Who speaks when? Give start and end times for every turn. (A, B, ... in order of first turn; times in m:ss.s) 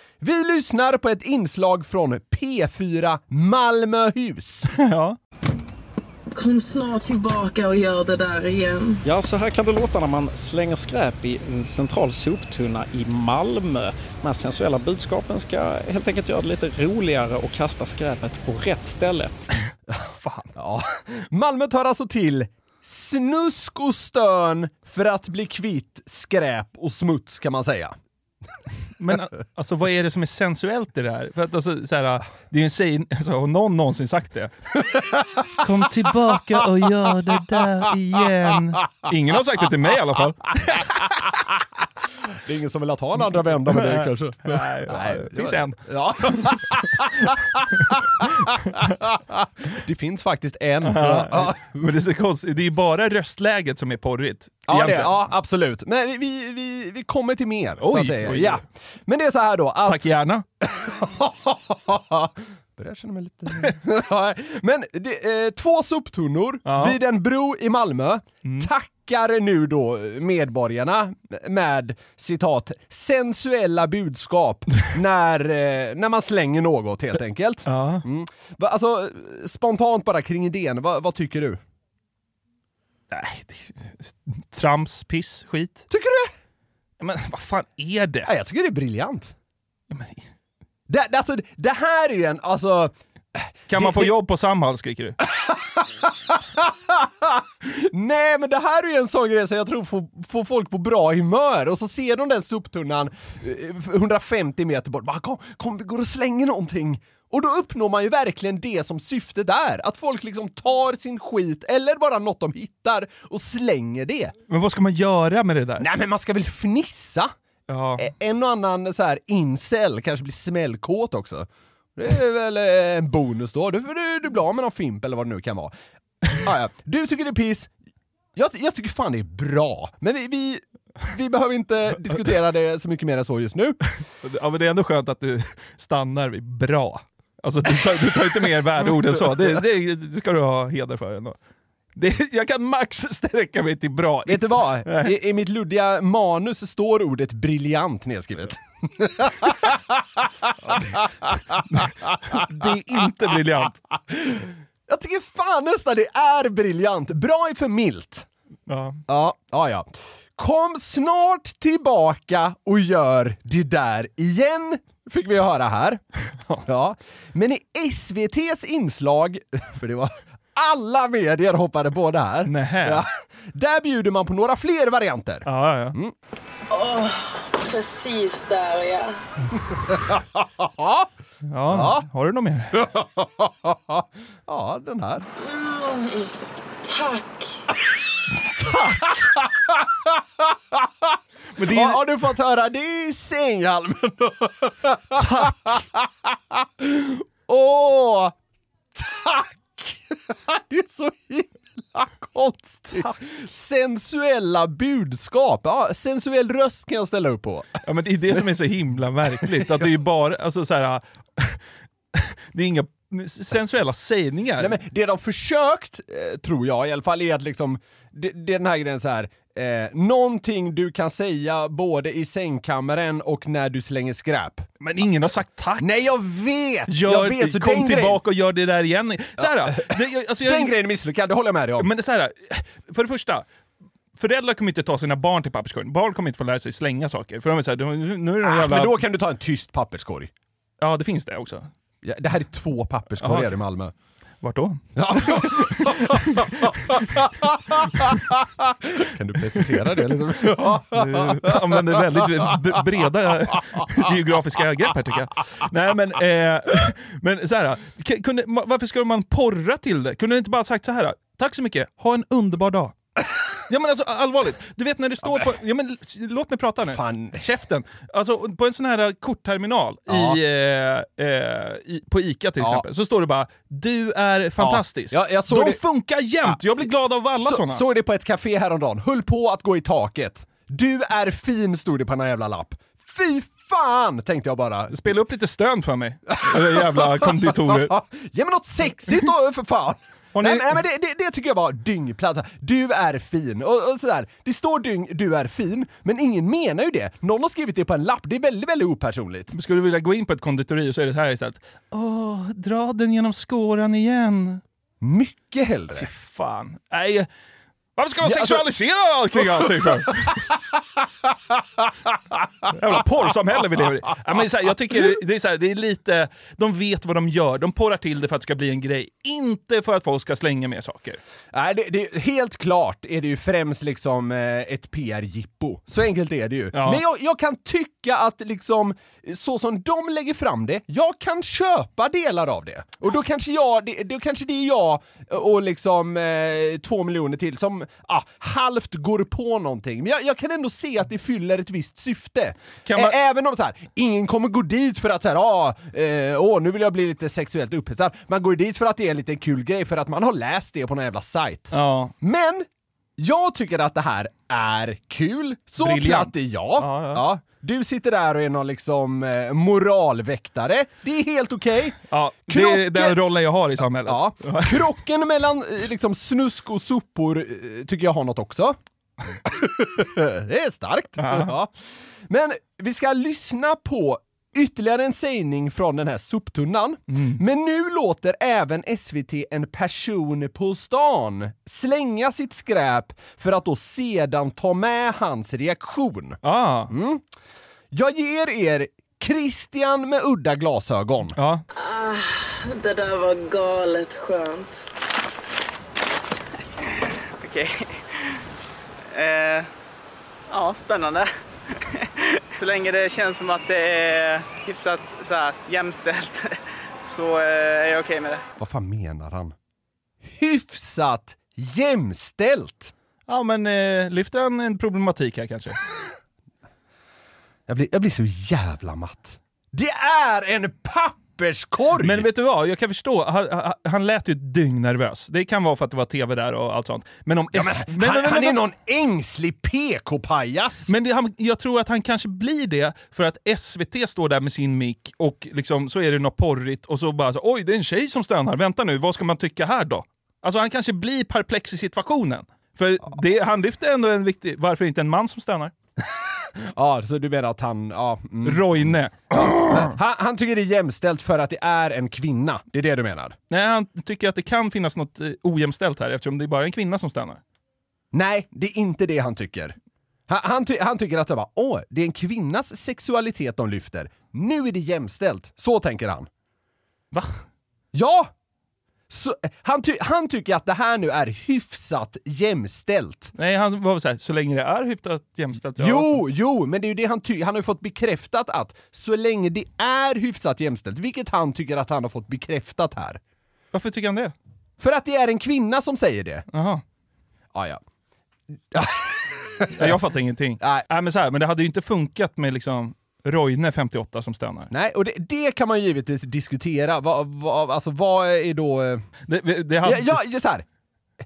0:00.2-0:04.7 A
0:04.7-0:05.2 B
0:06.3-0:09.0 C
0:09.0-0:19.3 D
0:20.1-0:20.5 B
0:20.6-0:28.0 A
0:29.0-0:34.5 B
0:35.6-0:41.4 B
0:42.3-0:51.6 A
0:43.3-0:45.8 B
0:50.8-0:55.2 B
0:54.7-1:00.1 A
0:57.8-0:58.6 B
0:59.9-1:00.4 B
1:00.6-1:21.6 A
1:06.6-1:07.0 B
1:08.4-1:08.7 B
1:17.7-1:18.0 B
1:23.1-1:25.9 B
1:25.9-1:26.3 A
1:27.0-1:28.3 B
1:28.2-1:29.3 A
1:29.9-1:30.3 B
1:30.9-1:34.1 A
1:33.7-1:35.2 B
1:35.4-1:54.3 A
1:54.5-1:55.9 B
1:55.8-1:57.3 A
1:57.7-1:58.1 B
1:58.0-2:05.7 A
2:06.4-2:07.7 A
2:08.4-2:13.8 A
2:14.2-2:21.4 B
2:22.0-2:25.1 B
2:24.3-2:32.5 A
2:31.7-2:33.8 B
2:34.1-2:38.3 A
2:38.7-2:39.0 B
2:39.1-2:46.0 A
2:46.3-2:46.6 B
2:46.7-2:56.1 A
2:52.4-2:53.0 B
2:55.4-2:56.0 B
2:56.7-2:59.1 C
3:00.0-3:01.1 A
3:01.4-3:02.8 B
3:01.7-3:02.1 A
3:02.8-3:05.3 A
3:05.4-3:07.6 C
3:08.6-3:09.3 A
3:11.6-3:18.4 A
3:11.6-3:12.0 B
3:15.2-3:15.8 B
3:18.9-3:27.8 A
3:22.9-3:23.2 B
3:27.8-3:31.6 B
3:32.1-3:34.8 B
3:34.6-3:44.7 A
3:44.8-3:45.9 B
3:45.8-3:48.2 A
3:46.9-3:50.8 B
3:49.4-3:51.9 A
3:51.8-3:53.5 B
3:54.2-3:58.9 B
3:58.4-4:00.3 A
4:00.8-4:01.7 B
4:02.0-4:03.9 A
4:03.2-4:03.6 B
4:04.4-4:06.4 B
4:05.0-4:12.0 A
4:09.7-4:23.0 B
4:23.7-4:37.8 B
4:26.9-4:27.4 A
4:30.1-4:30.4 A
4:34.6-4:35.8 A
4:37.4-4:44.9 A
4:44.9-4:47.9 B
4:46.4-4:59.6 A
4:50.4-4:50.8 B
4:59.5-5:04.6 B
5:05.0-5:06.1 A
5:05.9-5:07.3 B
5:08.0-5:10.5 B
5:08.2-5:08.6 A
5:12.7-5:21.2 B
5:21.5-5:52.7 A
5:26.7-5:27.0 B
5:42.8-5:43.2 B
5:51.7-5:52.1 B
5:53.2-6:03.2 A
5:55.8-5:57.2 B
6:02.1-6:04.9 B
6:04.1-6:08.8 A
6:09.4-6:11.7 A
6:11.2-6:11.5 B
6:12.3-6:27.2 A
6:17.1-6:17.4 B
6:26.4-6:26.9 B
6:27.9-6:31.4 A
6:31.4-6:31.6 B
6:31.8-6:34.8 C
6:37.3-6:38.4 E
6:39.1-6:39.7 E
6:40.5-6:48.4 E
6:48.6-6:49.6 A
6:50.2-6:52.9 A
6:53.3-6:55.8 B
6:57.7-7:02.3 A
7:02.0-7:08.6 B
7:07.5-7:10.9 A
7:10.9-7:25.7 B
7:26.0-7:33.4 A
7:28.4-7:30.0 B
7:33.5-7:37.4 B
7:38.1-7:39.8 A
7:40.3-7:46.3 A
7:47.1-7:47.4 B
7:47.9-7:48.3 A
7:49.1-7:53.3 A
7:53.4-7:56.2 B
7:55.8-8:03.2 A
8:03.7-8:04.4 B
8:04.8-8:06.4 A
8:06.5-8:06.8 B
8:07.5-8:07.8 A
8:08.7-8:10.0 A
8:09.8-8:14.7 B
8:14.7-8:19.0 A
8:19.3-8:20.2 B
8:19.8-8:20.6 A